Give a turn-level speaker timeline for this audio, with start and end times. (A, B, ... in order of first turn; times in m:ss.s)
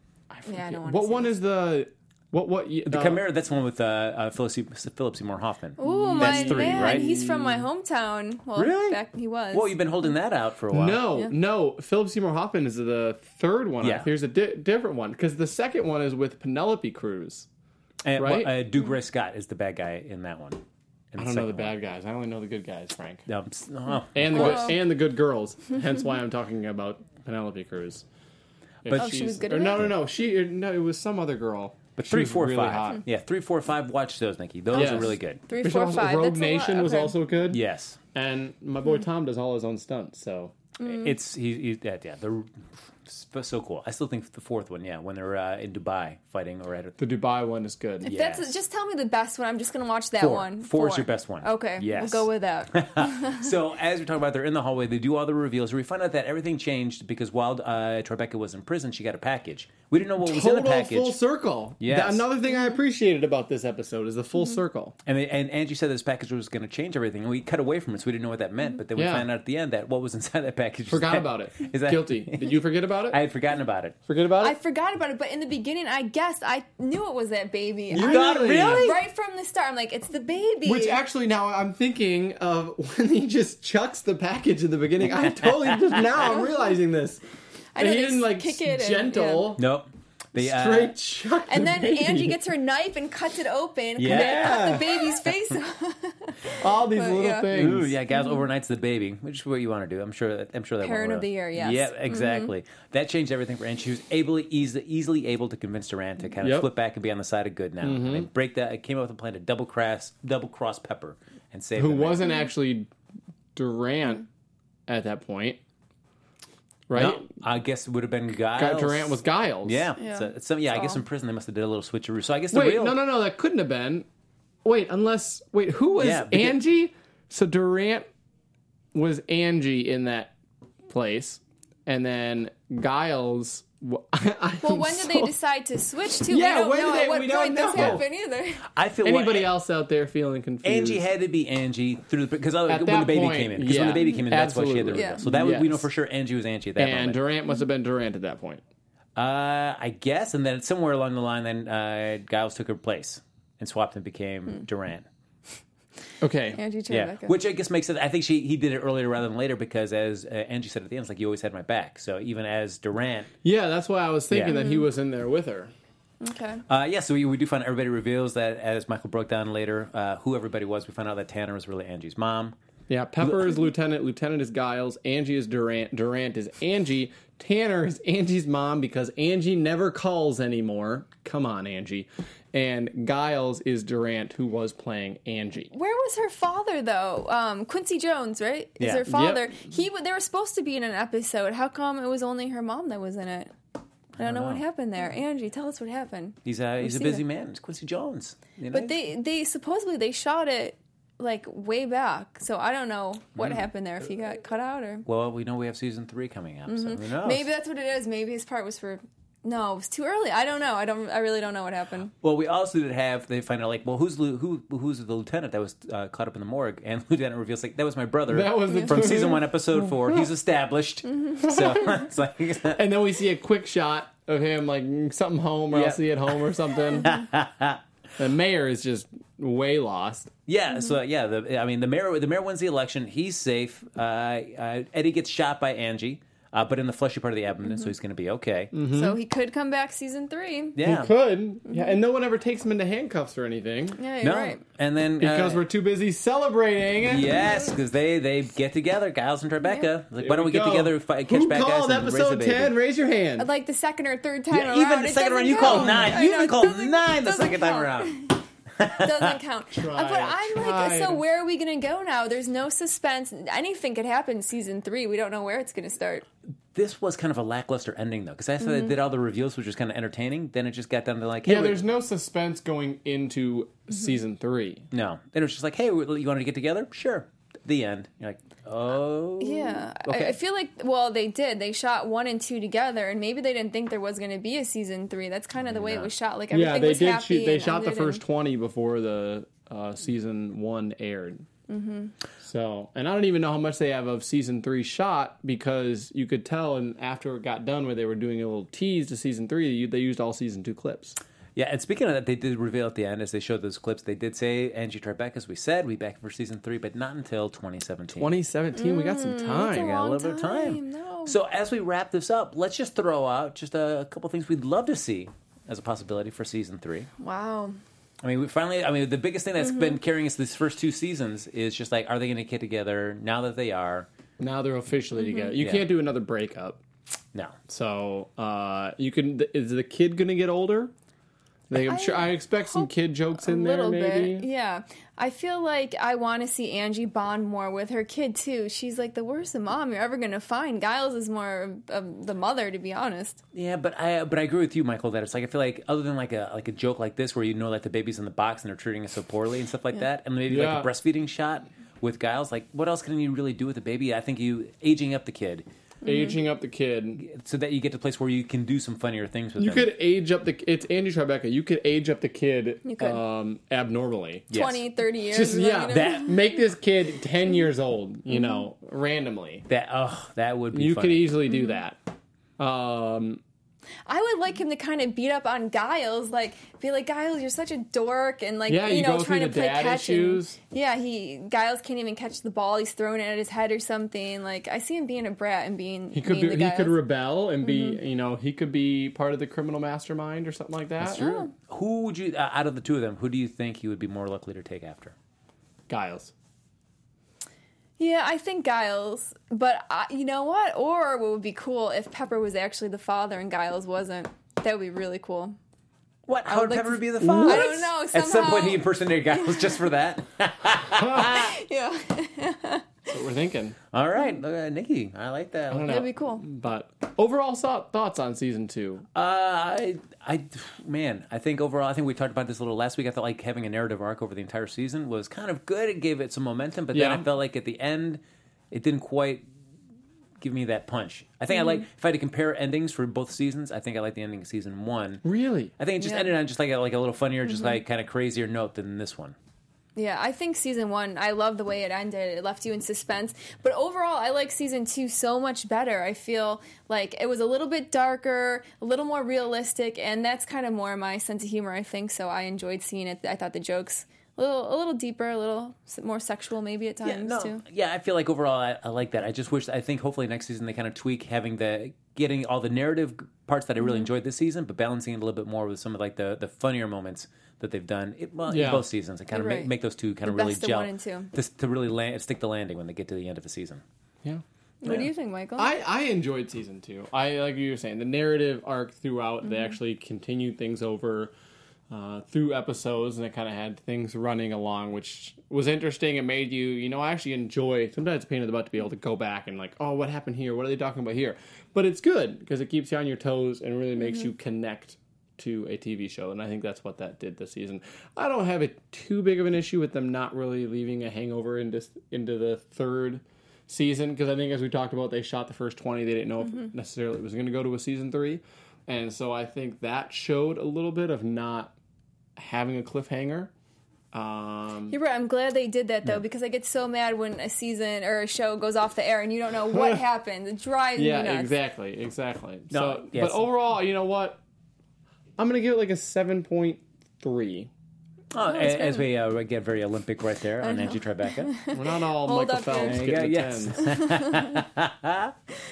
0:00.3-0:03.2 A
0:00.4-0:01.4 B
0:02.9-0:07.1 C
0:05.8-0:09.8 B
0:05.8-0:07.7 A
0:08.5-0:09.0 C
0:09.5-0:11.1 C
0:10.7-0:17.5 A
0:13.8-0:14.1 C
0:18.0-0:21.8 C
0:18.2-0:18.5 A
0:21.2-0:23.2 A
0:23.3-0:24.7 C
0:24.1-0:28.0 A
0:24.3-0:24.8 B
0:28.8-0:33.0 A
0:28.8-0:29.9 C
0:28.9-0:29.9 B
0:32.0-0:35.4 C
0:34.7-0:37.2 B
0:34.7-0:37.6 A
0:37.5-0:38.0 C
0:38.1-0:40.5 A
0:40.8-0:41.1 B
0:40.8-0:47.0 C
0:47.0-0:48.1 A
0:48.0-0:53.5 B
0:48.0-0:48.5 C
0:50.2-1:01.2 C
1:00.2-1:05.0 A
1:01.8-1:02.2 C
1:05.0-1:14.0 C
1:08.9-1:09.2 A
1:10.9-1:13.2 A
1:14.1-1:14.6 A
1:14.4-1:21.0 B
1:17.9-1:19.0 C
1:17.9-1:18.9 A
1:20.6-1:27.2 A
1:27.7-1:29.5 B
1:27.8-1:29.6 A
1:29.6-1:31.0 C
1:30.4-1:32.4 A
1:31.5-1:37.5 B
1:34.0-1:34.9 C
1:34.0-1:35.0 A
1:36.6-1:37.9 A
1:37.5-1:52.3 C
1:38.1-1:38.4 B
1:40.8-1:42.5 B
1:46.4-1:46.7 A
1:47.8-1:48.3 A
1:51.8-1:52.9 A
1:53.5-1:54.2 A
1:54.9-1:55.6 A
1:56.9-1:57.3 A
1:56.9-2:03.0 C
1:58.6-1:59.9 A
2:00.0-2:01.0 B
2:02.5-2:04.0 A
2:04.6-2:08.1 A
2:06.0-2:06.6 C
2:08.9-2:10.3 A
2:10.9-2:15.3 A
2:14.6-2:18.6 B
2:16.3-2:18.0 A
2:17.7-2:18.0 C
2:18.7-2:19.5 C
2:19.0-2:21.0 A
2:20.6-2:27.2 C
2:22.7-2:25.9 A
2:24.9-2:25.2 B
2:26.8-2:28.6 A
2:29.2-2:35.1 C
2:36.2-2:36.6 A
2:36.5-2:37.4 B
2:36.9-2:43.3 C
2:43.4-2:45.7 A
2:44.3-2:44.6 C
2:44.5-2:44.8 B
2:46.2-2:46.6 B
2:46.7-2:52.5 C
2:52.9-3:05.7 A
2:53.2-2:53.5 C
3:05.7-3:13.5 B
3:08.8-3:09.1 C
3:09.0-3:09.5 A
3:14.2-3:14.6 C
3:14.2-3:17.2 B
3:16.4-3:19.0 C
3:18.7-3:25.0 B
3:23.4-3:23.6 C
3:25.0-3:27.4 C
3:26.7-3:32.1 B
3:32.2-3:42.8 C
3:38.3-3:39.4 A
3:38.7-3:39.2 B
3:41.2-3:41.8 B
3:41.4-3:42.0 A
3:42.7-3:47.1 A
3:45.7-3:47.8 C
3:48.2-3:50.3 A
3:50.5-3:58.7 C
3:58.7-3:59.2 A
3:58.9-4:00.8 B
4:00.7-4:01.1 C
4:00.8-4:04.0 A
4:04.0-4:04.6 B
4:04.2-4:05.6 C
4:05.2-4:07.3 A
4:07.0-4:12.7 C
4:10.2-4:13.5 A
4:13.4-4:18.4 B
4:14.5-4:19.3 C
4:15.6-4:16.2 A
4:18.9-4:26.2 B
4:19.7-4:21.2 A
4:26.7-4:31.8 C
4:28.6-4:28.9 B
4:31.4-4:34.9 A
4:34.9-4:40.3 C
4:39.4-4:48.2 B
4:45.6-4:46.1 C
4:46.5-4:51.4 A
4:51.7-4:52.1 B
4:52.4-5:01.2 A
5:01.6-5:08.3 C
5:08.2-5:10.0 A
5:08.7-5:11.3 B
5:09.7-5:17.1 C
5:17.2-5:17.8 B
5:18.2-5:24.1 C
5:19.7-5:20.0 B
5:24.4-5:26.8 A
5:25.2-5:25.5 B
5:25.6-5:25.9 C
5:27.7-5:30.9 A
5:31.7-5:34.5 A
5:31.7-5:32.9 B
5:33.4-5:43.4 B
5:43.5-5:55.6 C
5:50.5-5:50.9 A
5:56.0-5:56.4 B
5:56.0-5:57.2 A
5:57.2-5:59.9 C
5:59.6-6:04.5 A
6:02.8-6:03.2 B
6:04.5-6:04.8 C
6:04.5-6:06.6 B
6:05.3-6:09.6 A
6:08.3-6:08.6 B
6:09.7-6:11.3 C
6:10.7-6:12.0 A
6:12.6-6:13.4 A
6:14.0-6:27.0 B
6:18.7-6:20.6 A
6:26.1-6:31.3 A
6:27.6-6:28.0 B
6:31.0-6:35.1 C
6:31.1-6:31.5 B
6:35.9-6:36.3 A
6:38.0-6:45.6 B
6:46.3-6:51.5 C
6:46.5-6:49.8 B
6:47.2-6:47.7 A
6:51.2-6:52.9 B
6:53.1-6:53.8 A
6:53.9-6:55.9 C
6:55.7-6:59.0 A
6:55.8-6:56.4 B
6:59.1-7:09.4 C
7:06.9-7:07.2 A
7:10.4-7:15.2 C
7:15.2-7:15.7 A
7:15.8-7:19.4 C
7:16.0-7:16.3 B
7:20.0-7:37.6 B
7:37.0-7:53.8 C
7:48.5-7:48.9 A
7:49.3-7:49.7 B
7:50.2-7:51.3 B
7:54.2-8:01.3 A
7:54.8-7:55.7 B
8:01.9-8:31.7 A
8:32.4-8:33.5 A
8:34.1-8:35.0 A
8:34.9-8:41.5 B
8:39.7-8:40.0 A
8:41.0-8:44.4 A
8:42.7-8:43.4 C
8:45.4-8:47.7 A
8:48.3-8:51.5 C
8:48.5-8:49.0 B
8:50.6-8:53.0 B
8:51.7-8:53.9 A
8:52.8-8:55.3 C
8:53.8-8:54.6 B